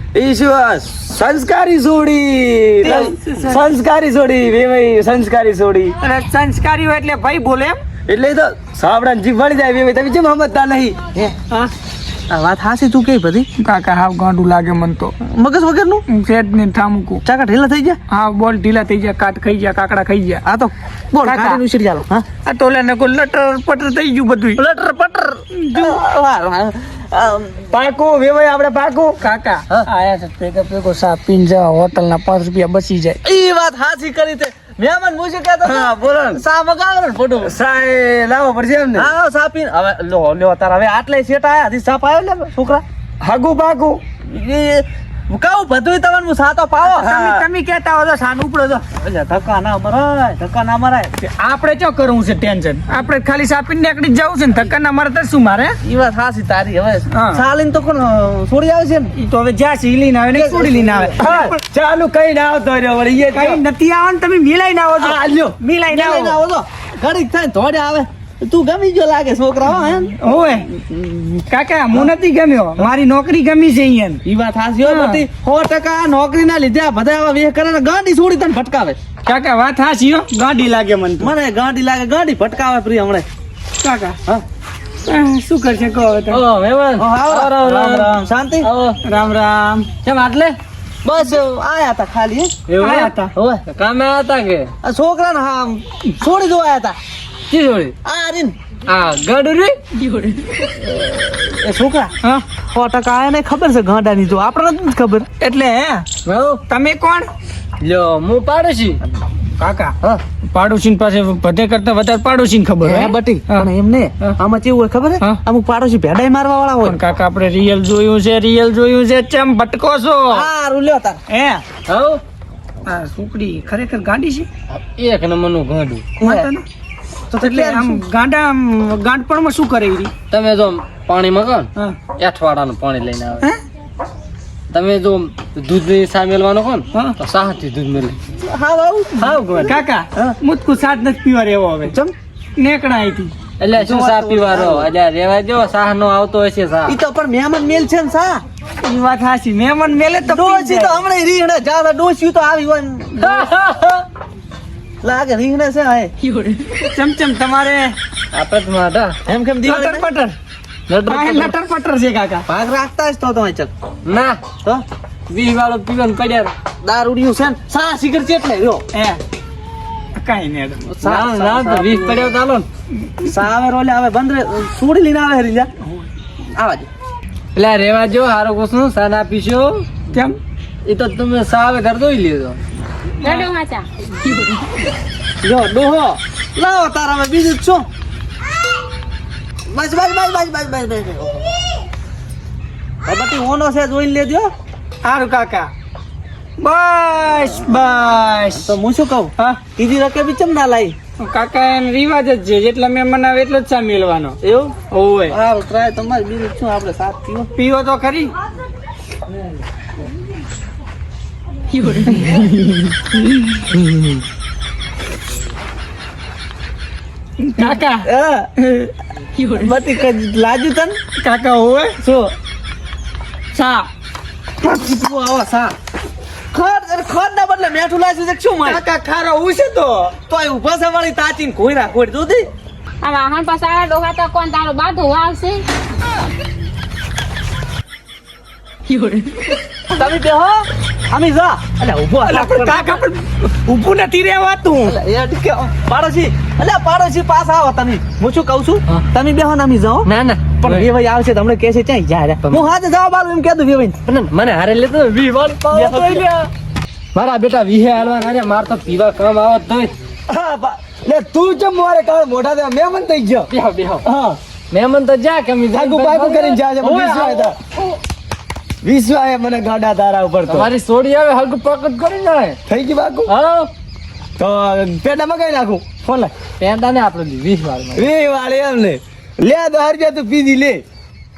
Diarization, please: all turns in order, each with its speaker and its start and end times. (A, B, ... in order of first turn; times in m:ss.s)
0:00.1-0:06.0 A
0:02.8-0:03.5 B
0:03.0-0:03.6 C
0:06.0-0:07.8 C
0:08.1-0:11.1 A
0:12.3-0:13.5 B
0:13.6-0:15.2 C
0:15.2-0:16.0 B
0:16.1-0:17.2 C
0:17.2-0:18.0 B
0:18.1-0:20.4 C
0:20.4-0:22.3 B
0:21.2-0:21.6 C
0:22.4-0:24.6 C
0:24.6-0:27.7 B
0:25.5-0:26.0 C
0:27.7-0:29.2 A
0:29.2-0:33.2 C
0:33.2-0:37.5 B
0:35.6-0:36.4 A
0:37.4-0:39.1 A
0:39.0-0:42.8 B
0:43.2-0:44.0 A
0:44.2-0:47.2 B
0:46.8-0:48.8 C
0:47.0-0:47.4 A
0:49.0-0:51.2 B
0:51.2-0:55.8 C
0:55.8-0:59.1 B
0:57.1-0:57.4 C
0:59.2-1:01.6 C
1:00.3-1:01.2 B
1:01.2-1:03.6 A
1:03.3-1:06.4 C
1:05.0-1:05.6 A
1:05.8-1:10.2 B
1:10.2-1:10.8 C
1:11.0-1:11.3 B
1:11.4-1:14.2 C
1:14.2-1:19.0 B
1:14.8-1:15.2 C
1:19.2-1:21.3 C
1:21.2-1:23.3 B
1:23.8-1:24.2 C
1:25.0-1:26.4 C
1:26.4-1:28.0 D
1:27.0-1:28.7 B
1:28.6-1:29.0 D
1:29.0-1:29.9 C
1:30.1-1:30.6 D
1:31.0-1:32.5 B
1:32.7-1:33.3 C
1:32.7-1:33.0 D
1:33.4-1:33.6 B
1:33.7-1:34.7 D
1:34.8-1:37.0 B
1:37.5-1:38.0 D
1:38.0-1:38.6 B
1:38.9-1:39.8 D
1:41.0-1:42.1 B
1:42.7-1:45.3 B
1:45.4-1:46.1 C
1:46.3-1:46.6 D
1:46.7-1:47.3 C
1:47.8-1:49.0 D
1:49.6-1:50.0 C
1:50.5-1:53.7 C
1:52.8-1:57.0 B
1:56.8-2:00.5 C
2:00.3-2:01.2 B
2:01.3-2:01.6 C
2:01.9-2:02.2 D
2:02.8-2:04.5 C
2:04.7-2:06.1 D
2:06.2-2:06.5 B
2:06.2-2:06.6 C
2:07.3-2:08.0 B
2:07.4-2:10.1 C
2:10.3-2:13.5 D
2:11.8-2:12.0 C
2:14.7-2:18.2 D
2:16.9-2:17.2 C
2:18.4-2:20.4 B
2:19.2-2:22.0 C
2:21.9-2:22.1 B
2:22.6-2:23.4 C
2:23.6-2:26.9 D
2:23.8-2:24.9 B
2:26.9-2:28.4 B
2:28.8-2:31.0 C
2:30.3-2:33.5 B
2:33.3-2:34.0 D
2:35.0-2:36.1 B
2:36.2-2:36.6 E
2:36.8-2:38.0 C
2:38.3-2:39.2 D
2:39.3-2:40.0 B
2:39.6-2:40.4 C
2:40.9-2:41.4 D
2:41.0-2:42.5 C
2:42.5-2:43.7 B
2:44.1-2:44.4 D
2:45.3-2:46.5 D
2:46.8-2:48.8 B
2:48.9-2:49.2 C
2:50.2-2:50.8 C
2:50.9-2:52.3 B
2:51.0-2:52.7 D
2:53.2-2:55.7 B
2:56.5-2:56.9 B
2:57.6-2:59.9 D
3:00.1-3:00.4 C
3:00.8-3:02.6 D
3:03.2-3:04.7 E
3:05.4-3:07.9 B
3:09.7-3:11.6 B
3:13.0-3:14.5 B
3:15.0-3:15.7 C
3:16.6-3:18.7 C
3:18.6-3:21.0 B
3:21.2-3:24.4 C
3:24.4-3:24.8 B
3:24.9-3:25.4 C
3:25.3-3:27.5 B
3:27.5-3:28.4 C
3:32.1-3:32.9 C
3:37.4-3:38.1 C
3:37.6-3:38.5 B
3:39.4-3:41.0 B
3:41.2-3:42.0 C
3:42.0-3:42.3 B
3:43.5-3:43.9 C
3:44.6-3:45.8 B
3:46.5-3:48.8 B
3:48.6-3:50.1 C
3:50.3-3:52.5 B
3:53.0-3:55.6 E
3:58.9-3:59.3 E
3:59.9-4:03.0 B
4:02.3-4:05.0 C
4:04.8-4:10.1 B
4:10.1-4:10.5 D
4:10.6-4:14.0 B
4:14.1-4:16.5 D
4:15.7-4:16.3 B
4:17.1-4:20.0 D
4:20.3-4:23.5 A
4:23.5-4:24.0 D
4:24.0-4:24.4 A
4:24.7-4:27.4 D
4:25.7-4:27.6 A
4:28.8-4:30.7 A
4:30.5-4:32.6 D
4:32.7-4:33.3 A
4:33.3-4:33.7 D
4:34.4-4:36.3 A
4:36.6-4:38.0 D
4:38.0-4:40.8 A